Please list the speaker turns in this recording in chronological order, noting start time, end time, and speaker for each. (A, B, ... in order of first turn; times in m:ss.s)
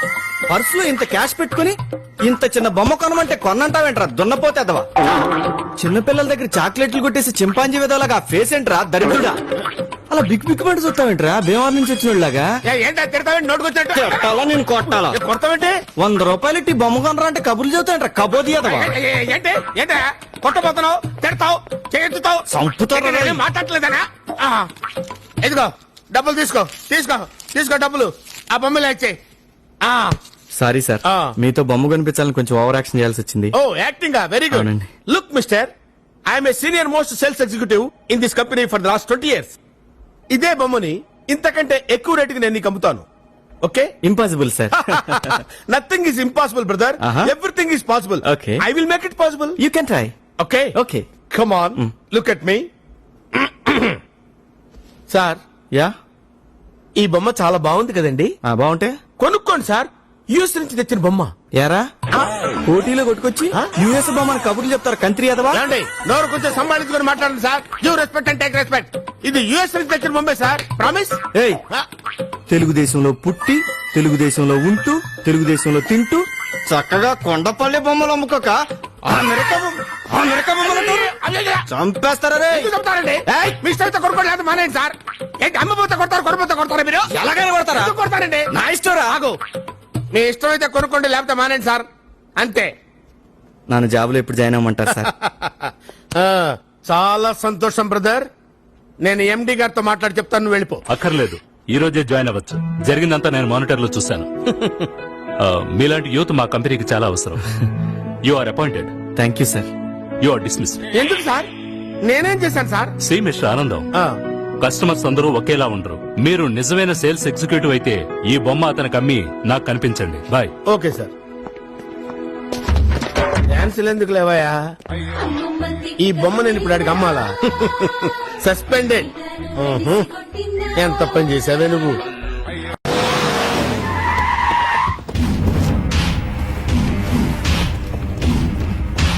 0:00.5-0:04.9 A
0:05.8-0:09.4 A
0:10.1-0:12.5 A
0:12.7-0:14.2 B
0:13.9-0:15.2 A
0:15.1-0:15.8 B
0:16.0-0:18.9 A
0:18.6-0:24.7 B
0:22.5-0:23.4 A
0:25.4-0:29.2 B
0:29.8-0:30.1 B
0:30.6-0:33.5 A
0:33.6-0:35.7 B
0:34.5-0:34.9 A
0:36.3-0:39.6 B
0:40.3-0:43.1 B
0:43.6-0:43.9 B
0:44.0-0:45.4 A
0:44.8-0:49.6 B
0:47.0-0:47.3 A
0:48.2-0:48.6 A
0:49.6-0:50.2 A
0:50.4-0:50.7 B
0:50.8-0:51.1 A
0:51.3-0:52.7 B
0:53.4-0:54.0 B
0:55.1-0:55.4 B
0:57.0-0:58.3 B
0:58.4-0:59.0 A
0:59.2-1:01.3 B
1:01.6-1:01.9 A
1:02.7-1:05.6 A
1:05.5-1:11.9 B
1:11.3-1:11.6 A
1:12.5-1:18.6 A
1:19.1-1:21.6 B
1:20.2-1:20.8 A
1:21.7-1:22.7 A
1:22.5-1:27.1 B
1:23.3-1:23.6 A
1:27.1-1:27.9 A
1:27.7-1:29.3 B
1:30.1-1:31.9 B
1:32.4-1:32.7 B
1:33.7-1:35.1 A
1:35.0-1:38.3 B
1:39.0-1:40.8 B
1:40.9-1:44.3 C
1:45.4-1:47.4 C
1:48.3-1:48.9 C
1:49.2-1:49.7 A
1:50.2-1:50.8 C
1:50.9-1:51.5 B
1:52.1-1:52.9 B
1:53.0-1:53.8 C
1:54.6-2:00.5 C
2:00.7-2:01.1 B
2:03.5-2:04.6 B
2:06.0-2:09.1 B
2:09.7-2:10.0 B
2:10.8-2:12.0 B